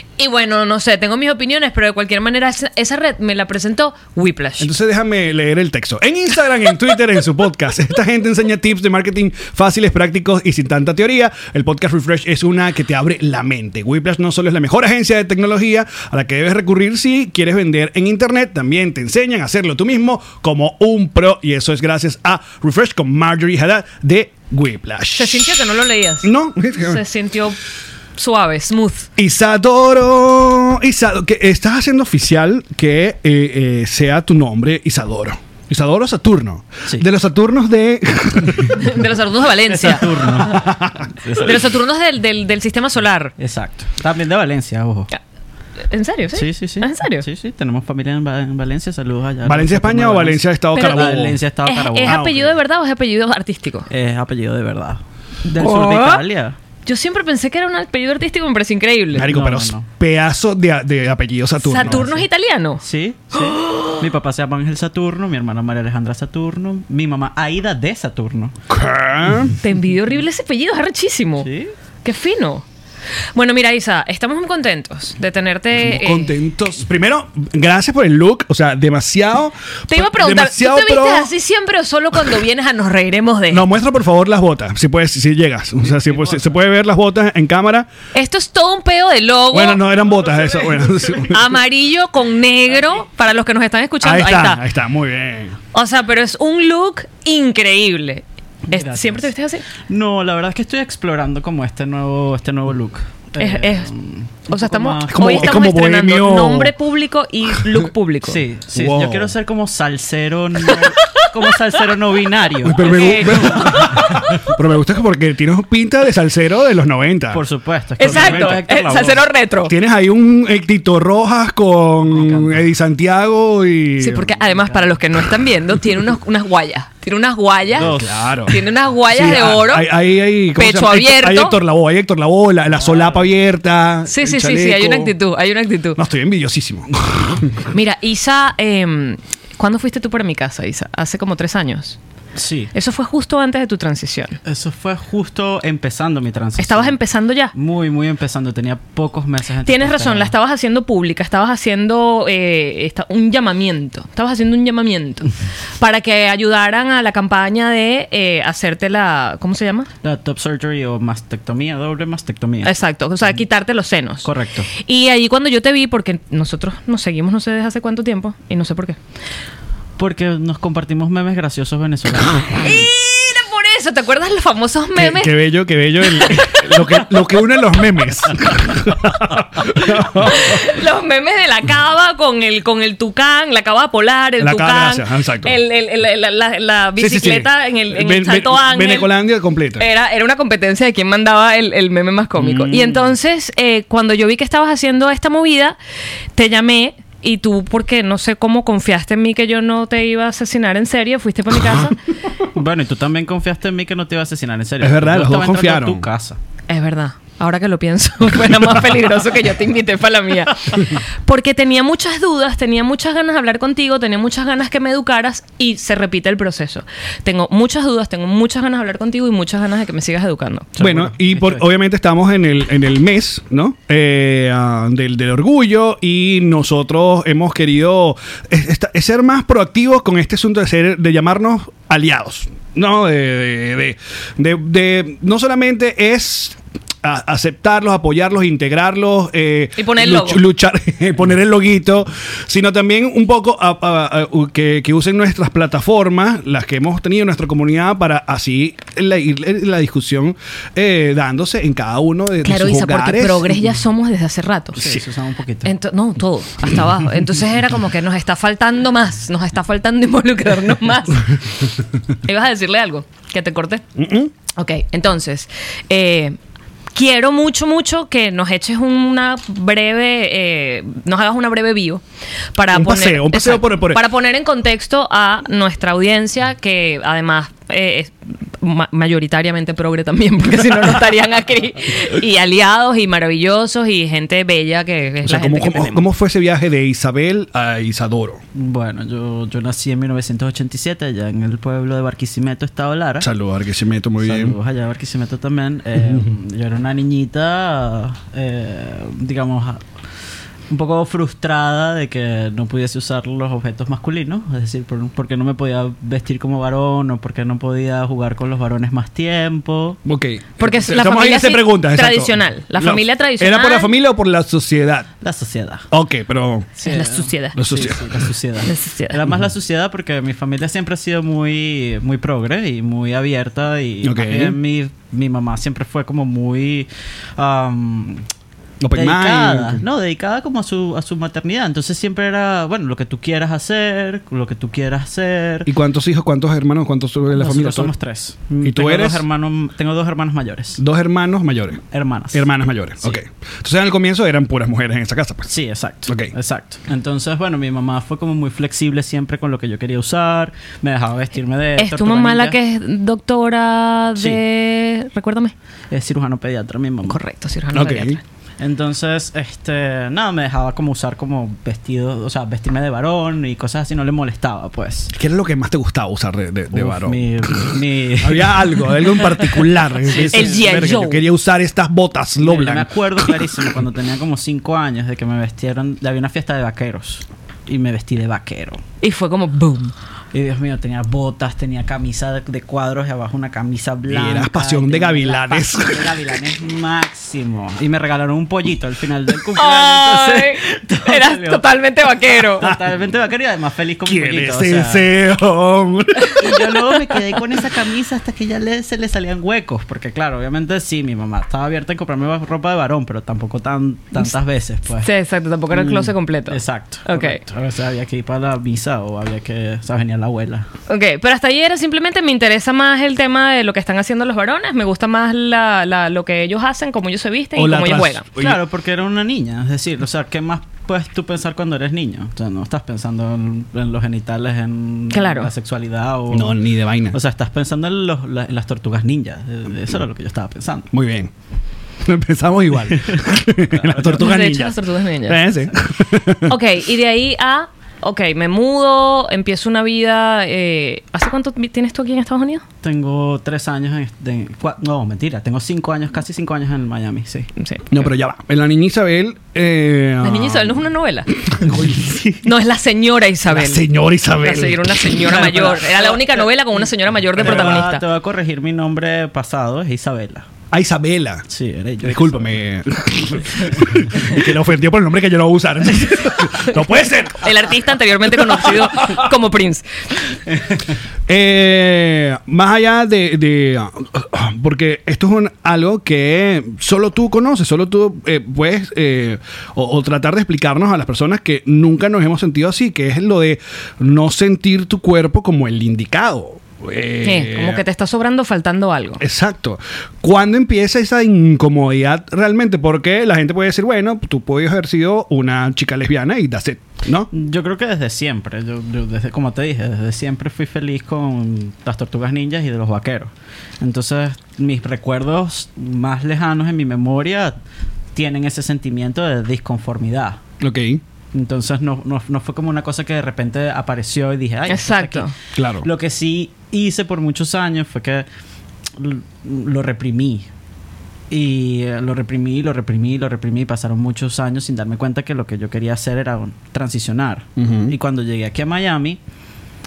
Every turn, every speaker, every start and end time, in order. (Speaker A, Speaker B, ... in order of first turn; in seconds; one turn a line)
Speaker A: 0.2-4.7
Speaker B: 4.6-25.7
Speaker A: 25.2-27.6
Speaker B: 26.2-27.0
Speaker A: 28.2-29.1
Speaker B: 29.2-38.9
Speaker A: 38.8-40.4
Speaker C: 39.7-40.6
Speaker B: 40.4-41.1
Speaker C: 41.2-41.7
Speaker A: 41.4-43.3
Speaker C: 43.4-45.1
Speaker A: 45.9-47.2
Speaker C: 46.3-52.3
Speaker B: 49.4-51.4
Speaker A: 50.7-53.9
Speaker B: 52.0-52.5
Speaker C: 53.9-56.6
Speaker A: 55.5-56.2
Speaker A: 56.8-59.3
Speaker B: 59.1-62.1
Speaker C: 59.2-59.9
Speaker A: 61.6-62.8
Speaker C: 61.8-62.2
Speaker C: 62.8-68.5
Speaker A: 63.5-63.9
Speaker B: 68.7-69.5
Speaker A: 69.6-71.5
Speaker C: 71.4-71.7
Speaker A: 72.0-72.7
Speaker A: 73.3-76.3
Speaker B: 75.7-81.3
Speaker A: 79.9-83.7
Speaker B: 83.5-87.9
Speaker C: 85.9-86.6
Speaker A: 88.1-89.8
Speaker B: 89.5-91.4
Speaker C: 90.6-91.3
Speaker A: 91.3-94.6
Speaker B: 94.0-95.6
Speaker A: 95.7-99.6
Speaker C: 98.7-105.6
Speaker A: 103.4-103.9
Speaker A: 104.5-108.4
Speaker B: 105.1-106.7
Speaker C: 108.2-114.1
Speaker B: 108.7-109.3
Speaker A: 110.7-111.3
Speaker B: 112.6-117.4
Speaker A: 112.8-113.8
Speaker C: 117.3-119.2
Speaker A: 118.0-119.7
Speaker B: 118.0-118.6
Speaker B: 119.7-124.3
Speaker C: 122.1-122.6
Speaker A: 124.0-129.9
Speaker C: 124.4-125.0
Speaker C: 127.7-128.1
Speaker B: 127.8-135.1
Speaker A: 130.6-131.6
Speaker C: 132.7-133.3
Speaker A: 134.1-136.0
Speaker B: 135.9-137.6
Speaker A: 137.7-142.0
Speaker C: 142.4-142.7
Speaker A: 142.7-144.4
Speaker C: 144.4-147.0
Speaker A: 146.6-147.5
Speaker C: 147.6-150.3
Speaker A: 149.6-159.9
Speaker C: 160.0-162.7
Speaker A: 162.6-169.0
Speaker C: 164.2-164.7
Speaker C: 170.0-172.8
Speaker A: 172.6-175.3
Speaker B: 174.9-180.7
Speaker A: 176.2-176.8
Speaker A: 180.2-189.1
Speaker B: 184.4-185.6
Speaker B: 187.0-189.9
Speaker A: 189.8-195.8
Speaker C: 192.4-193.1
Speaker A: 196.3-201.9
Speaker C: 202.5-206.4
Speaker B: 204.8-206.1
Speaker A: 206.7-220.7
Speaker C: 220.8-221.7
Speaker B: 220.8-253.6
Speaker A: 239.8-240.4
Speaker A: 252.4-254.8
Speaker C: 254.8-255.7
Speaker A: 255.6-261.3
Speaker A: 262.2-263.8
Speaker B: 263.9-264.3
Speaker A: 264.6-266.4
Speaker A: 266.9-272.0
Speaker A: 272.6-286.0
Speaker B: 272.7-274.0
Speaker B: 285.2-288.4
Speaker C: 288.5-293.3
Speaker B: 293.2-294.6
Speaker C: 294.2-299.8
Speaker B: 296.0-296.3
Speaker C: 300.7-310.0
Speaker B: 310.1-315.1
Speaker A: 310.6-313.9
Speaker C: 315.2-315.9
Speaker B: 315.9-316.7
Speaker C: 316.8-328.2
Speaker A: 316.8-317.6
Speaker B: 317.6-318.2
Speaker A: 318.6-319.2
Speaker B: 324.0-324.6
Speaker B: 328.8-329.8
Speaker C: 328.9-335.7
Speaker B: 335.6-337.9
Speaker C: 337.3-340.8
Speaker B: 338.6-339.2
Speaker B: 340.8-345.5
Speaker C: 341.9-342.5
Speaker C: 345.5-352.6
Speaker B: 346.1-346.3
Speaker A: 351.8-355.5
Speaker C: 354.2-354.4
Speaker C: 355.9-357.2
Speaker A: 357.1-358.2
Speaker B: 357.7-358.2
Speaker C: 358.6-365.1
Speaker B: 365.2-373.7
Speaker C: 366.7-369.5
Speaker C: 370.1-371.1
Speaker A: 370.3-371.2
Speaker C: 372.4-378.8
Speaker A: 379.0-379.9
Speaker C: 380.3-391.7
Speaker B: 384.1-386.1
Speaker A: 389.6-392.7
Speaker C: 392.2-395.1
Speaker B: 394.1-396.4
Speaker C: 396.4-405.1
Speaker A: 405.0-407.4
Speaker C: 405.7-410.7
Speaker A: 410.9-418.2
Speaker B: 417.6-418.6
Speaker C: 418.4-430.9
Speaker A: 425.1-425.5
Speaker B: 426.3-427.2
Speaker B: 430.9-431.3
Speaker B: 432.0-436.5
Speaker C: 433.1-434.3
Speaker A: 434.1-435.4
Speaker A: 436.5-442.6
Speaker C: 442.8-447.5
Speaker A: 447.6-447.8
Speaker B: 447.9-450.8
Speaker A: 450.2-451.3
Speaker B: 451.4-452.5
Speaker A: 452.4-453.8
Speaker B: 453.5-455.5
Speaker A: 454.4-458.0
Speaker C: 455.3-460.5
Speaker B: 457.4-457.8
Speaker B: 460.7-461.4
Speaker C: 461.5-462.6
Speaker B: 462.0-467.7
Speaker C: 463.5-464.4
Speaker A: 467.4-469.9
Speaker B: 468.4-469.2
Speaker C: 470.5-471.0
Speaker B: 471.3-487.8
Speaker A: 487.2-489.2
Speaker B: 489.2-497.3
Speaker C: 497.3-507.6
Speaker C: 508.1-510.4
Speaker B: 510.6-511.0
Speaker C: 511.3-515.3
Speaker A: 514.7-515.3
Speaker B: 515.6-515.9
Speaker C: 515.8-518.3
Speaker C: 519.0-520.5
Speaker C: 521.3-529.2
Speaker B: 527.6-527.9